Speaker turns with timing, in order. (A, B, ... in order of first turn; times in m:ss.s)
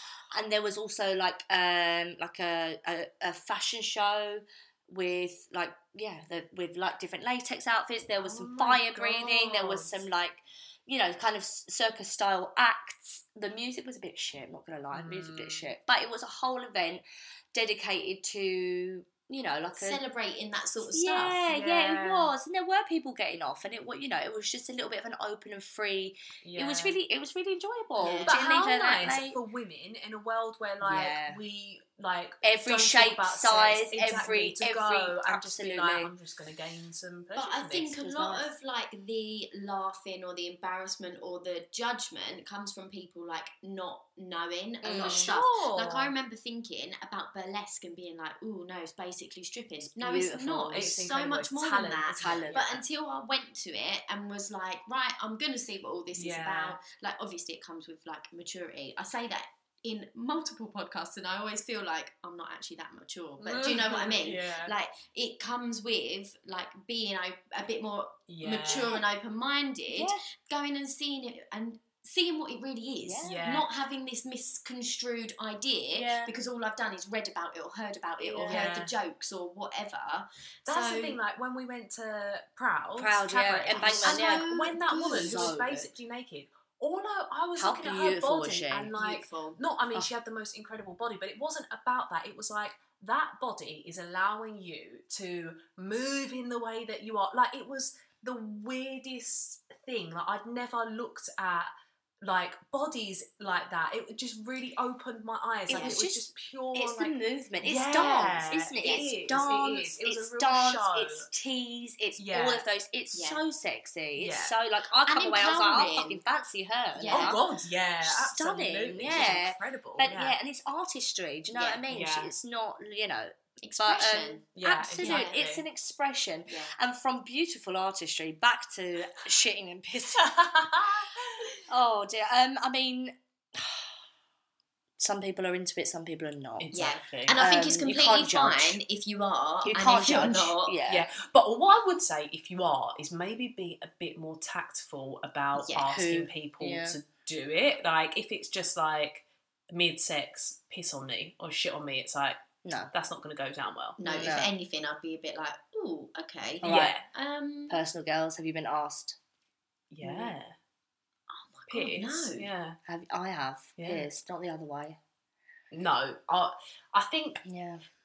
0:00.3-0:20.0 A
0:08.2-0:10.0 B
0:14.9-0:15.7 B
0:19.8-0:21.4 C
0:20.9-0:29.4 A
0:21.5-0:22.3 B
0:26.4-0:27.0 B
0:28.0-0:28.3 C
0:28.3-0:38.0 B
0:30.8-0:31.4 A
0:32.4-0:36.1 A
0:37.3-1:21.2 C
0:38.0-0:38.5 A
0:44.8-0:45.3 A
0:45.0-0:46.1 B
0:49.8-0:51.0 A
0:50.7-0:52.8 B
0:52.2-0:52.8 A
0:56.1-0:56.8 B
1:03.4-1:04.7 B
1:08.3-1:09.0 B
1:09.9-1:10.2 A
1:13.0-1:13.5 A
1:13.2-1:13.7 B
1:15.9-1:16.3 A
1:18.2-1:18.7 A
1:18.4-1:18.9 B
1:20.6-1:41.7 B
1:23.0-1:25.9 A
1:23.7-1:25.6 C
1:27.6-1:28.9 A
1:28.9-1:29.6 C
1:42.2-1:51.3 B
1:45.7-1:57.4 A
1:45.7-1:46.0 C
1:48.8-1:49.1 C
1:52.2-1:52.6 B
1:53.1-1:53.4 C
1:54.2-1:54.5 B
1:55.0-1:56.2 C
1:56.9-1:57.4 C
1:57.0-2:00.4 B
1:58.0-2:10.3 A
2:01.5-2:01.8 C
2:01.9-2:02.3 B
2:03.6-2:04.4 C
2:04.6-2:05.6 B
2:05.0-2:05.4 C
2:06.5-2:06.7 C
2:10.2-2:11.5 B
2:11.7-2:14.0 A
2:15.0-2:16.7 A
2:16.6-2:17.4 B
2:16.7-2:20.8 C
2:17.3-2:18.8 A
2:19.6-2:21.1 A
2:20.9-2:32.4 B
2:25.5-2:25.9 C
2:25.8-2:27.0 A
2:32.6-2:32.9 A
2:32.9-2:34.0 B
2:34.0-2:37.8 C
2:34.0-2:34.5 A
2:36.6-2:37.0 A
2:36.6-2:37.0 B
2:37.7-2:39.2 A
2:39.9-2:40.5 B
2:41.3-2:42.5 C
2:41.7-2:42.8 B
2:42.9-2:45.0 A
2:43.8-2:44.1 B
2:45.7-2:47.4 B
2:47.4-2:47.8 A